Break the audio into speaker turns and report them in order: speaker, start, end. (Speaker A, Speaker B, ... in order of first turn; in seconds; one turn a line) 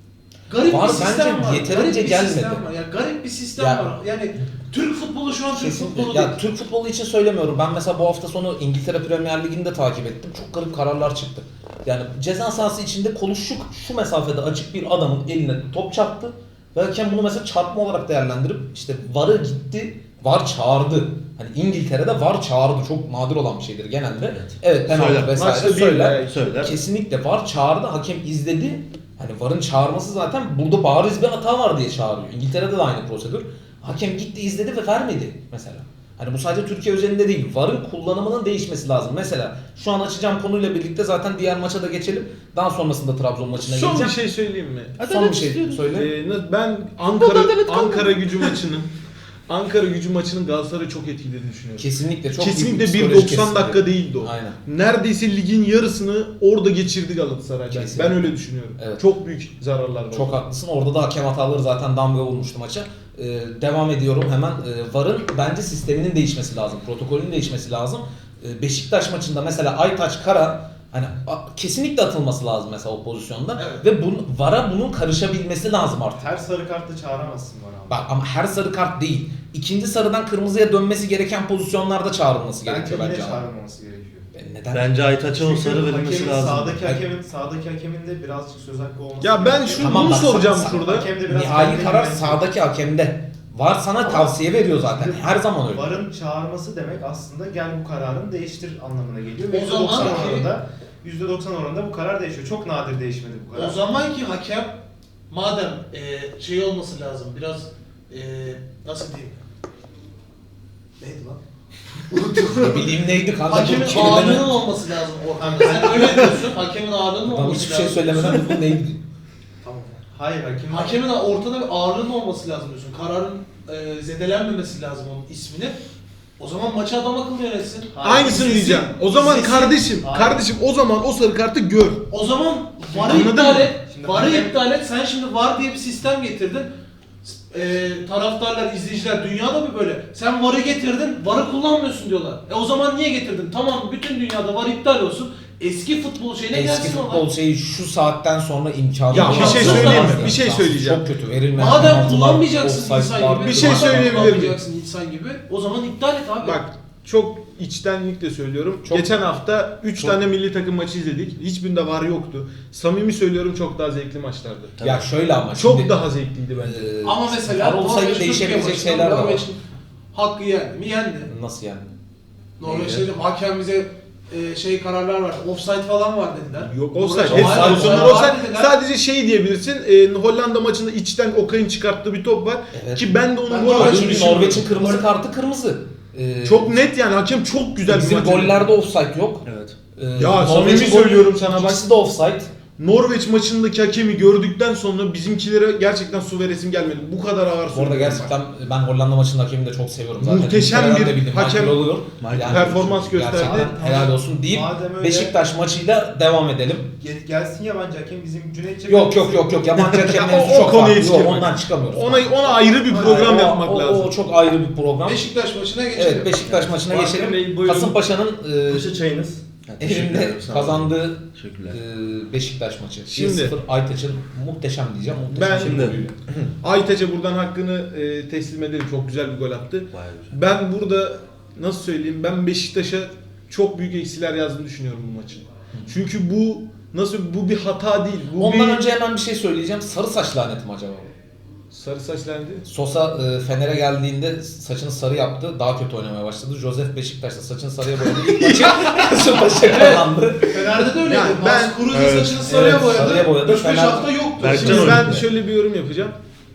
Speaker A: 0.5-6.4
Speaker B: 0.6-2.6
Speaker B: 3.6-3.9
Speaker B: 5.5-44.2
Speaker C: 24.2-25.4
Speaker D: 25.2-26.6
Speaker C: 26.3-26.8
Speaker D: 43.6-45.1
Speaker B: 45.0-46.1
Speaker C: 45.1-45.8
Speaker D: 45.9-48.9
Speaker B: 47.2-48.4
Speaker D: 49.5-60.4
Speaker B: 51.8-54.6
Speaker B: 57.7-59.0
Speaker B: 60.1-76.3
Speaker A: 73.5-73.8
Speaker E: 76.2-78.0
Speaker B: 77.9-83.4
Speaker E: 82.6-84.3
Speaker B: 84.3-84.9
Speaker C: 84.7-86.8
Speaker E: 85.3-92.5
Speaker D: 89.2-91.1
Speaker B: 89.8-96.0
Speaker E: 94.0-103.8
Speaker A: 99.5-100.5
Speaker B: 100.0-100.2
Speaker A: 103.5-109.4
Speaker A: 111.0-111.4
Speaker A: 112.1-112.9
Speaker B: 112.6-114.6
Speaker A: 113.5-118.6
Speaker E: 115.4-116.4
Speaker B: 117.3-119.0
Speaker A: 119.6-120.0
Speaker E: 120.1-121.0
Speaker A: 120.7-125.8
Speaker A: 126.4-129.8
Speaker E: 127.9-128.6
Speaker D: 128.0-132.1
Speaker E: 129.3-130.4
Speaker A: 132.1-136.7
Speaker D: 132.9-133.8
Speaker E: 133.8-134.6
Speaker A: 137.2-147.3
Speaker B: 146.5-154.4
Speaker D: 149.1-151.0
Speaker A: 149.1-150.3
Speaker A: 151.6-156.6
Speaker D: 153.5-154.6
Speaker D: 156.4-164.8
Speaker B: 158.8-159.1
Speaker B: 164.8-165.9
Speaker D: 165.5-166.9
Speaker B: 166.6-169.4
Speaker A: 167.0-169.6
Speaker A: 170.1-171.3
Speaker B: 171.3-171.9
Speaker A: 172.6-178.7
Speaker C: 172.6-173.0
Speaker D: 176.6-184.9
Speaker B: 177.3-178.2
Speaker B: 182.7-186.7
Speaker A: 183.5-185.0
Speaker D: 186.4-188.6
Speaker B: 187.8-189.4
Speaker C: 189.4-189.8
Speaker B: 190.0-192.5
Speaker D: 190.2-191.8
Speaker D: 192.8-198.3
Speaker B: 197.7-206.9
Speaker D: 200.2-201.8
Speaker C: 202.2-203.3
Speaker D: 202.3-203.8
Speaker E: 203.5-205.3
Speaker E: 207.0-209.6
Speaker B: 208.9-215.2
Speaker D: 209.9-214.1
Speaker A: 215.1-216.3
Speaker B: 215.9-219.0
Speaker F: 216.5-218.0
Speaker F: 218.7-219.4
Speaker C: 219.6-221.8
Speaker B: 219.8-226.2
Speaker D: 223.1-223.5
Speaker D: 225.3-226.0
Speaker C: 225.4-226.0
Speaker D: 226.6-238.8
Speaker C: 229.9-230.4
Speaker B: 238.4-241.1
Speaker D: 241.7-242.7
Speaker B: 242.7-250.7
Speaker A: 249.7-254.9
Speaker D: 251.0-252.3
Speaker C: 251.9-252.3
Speaker B: 252.4-255.2
Speaker C: 254.4-255.2
Speaker D: 254.5-256.1